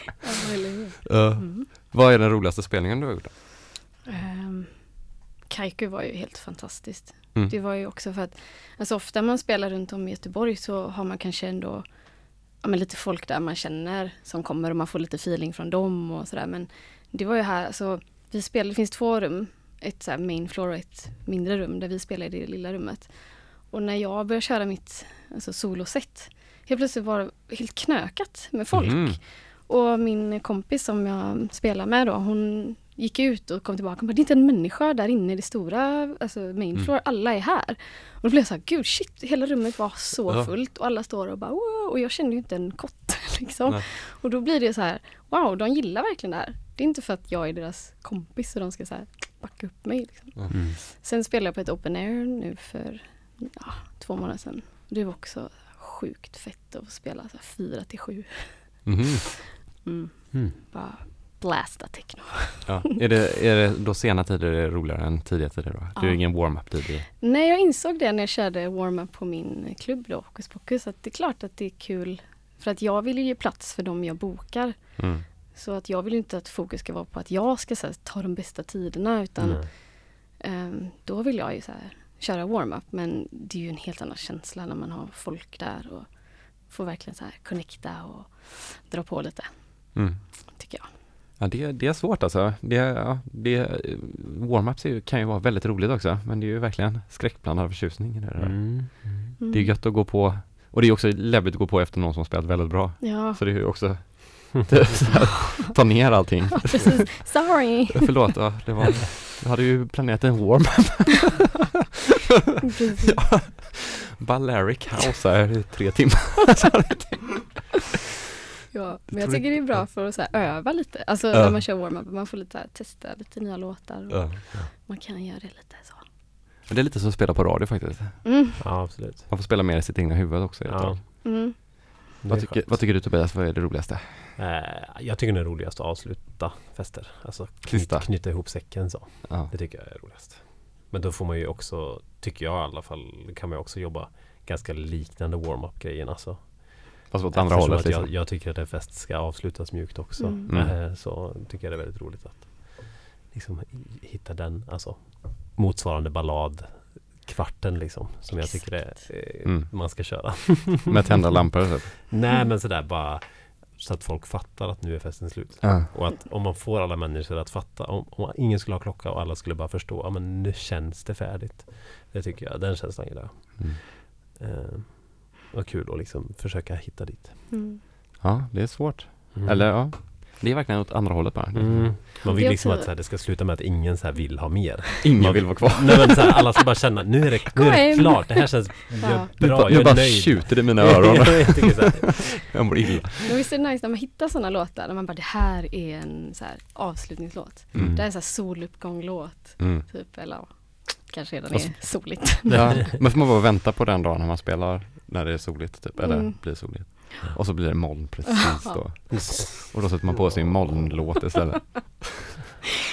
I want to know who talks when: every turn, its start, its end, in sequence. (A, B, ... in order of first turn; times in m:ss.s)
0:00.2-0:01.7 A
0:01.0-0:03.3 B
0:04.0-0:59.1 A
0:28.7-0:29.2 B
0:50.5-0:50.8 C
0:58.8-0:59.2 B
0:59.8-1:02.7 A
1:02.6-1:07.0 B
1:06.0-1:30.9 A
1:15.0-1:15.2 B
1:19.4-1:19.7 C
1:29.9-1:30.2 B
1:31.4-1:51.8 B
1:38.4-1:39.3 C
1:39.4-1:39.8 A
1:43.0-1:43.4 A
1:46.7-1:48.4 A
1:52.6-1:53.4 A
1:53.1-1:57.7 B
1:58.7-2:06.1 A
1:59.1-1:59.9 B
2:01.3-2:01.6 B
2:04.1-2:04.4 B
2:06.7-2:11.0 B
2:08.2-2:08.6 A
2:08.6-2:09.3 C
2:10.6-2:11.2 C
2:11.2-2:11.9 A
2:12.2-2:12.8 C
2:12.3-2:14.3 B
2:14.4-2:41.5 C
2:17.6-2:18.6 B
2:19.2-2:19.5 B
2:27.1-2:28.1 B
2:30.2-2:30.5 A
2:30.5-2:30.8 B
2:38.3-2:39.0 A
2:39.4-2:42.0 B
2:42.1-2:57.5 C
2:57.5-2:57.8 A
2:58.2-3:02.1 B
2:59.3-2:59.9 C
3:01.5-3:12.3 C
3:02.2-3:02.9 A
3:05.0-3:06.2 B
3:07.5-3:09.3 A
3:09.4-3:13.2 B
3:13.2-3:22.9 A
3:17.7-3:18.0 B
3:17.8-3:18.0 C
3:19.6-3:19.8 B
3:21.5-3:22.7 C
3:22.4-3:32.2 B
3:26.0-3:27.1 A
3:29.1-3:29.9 C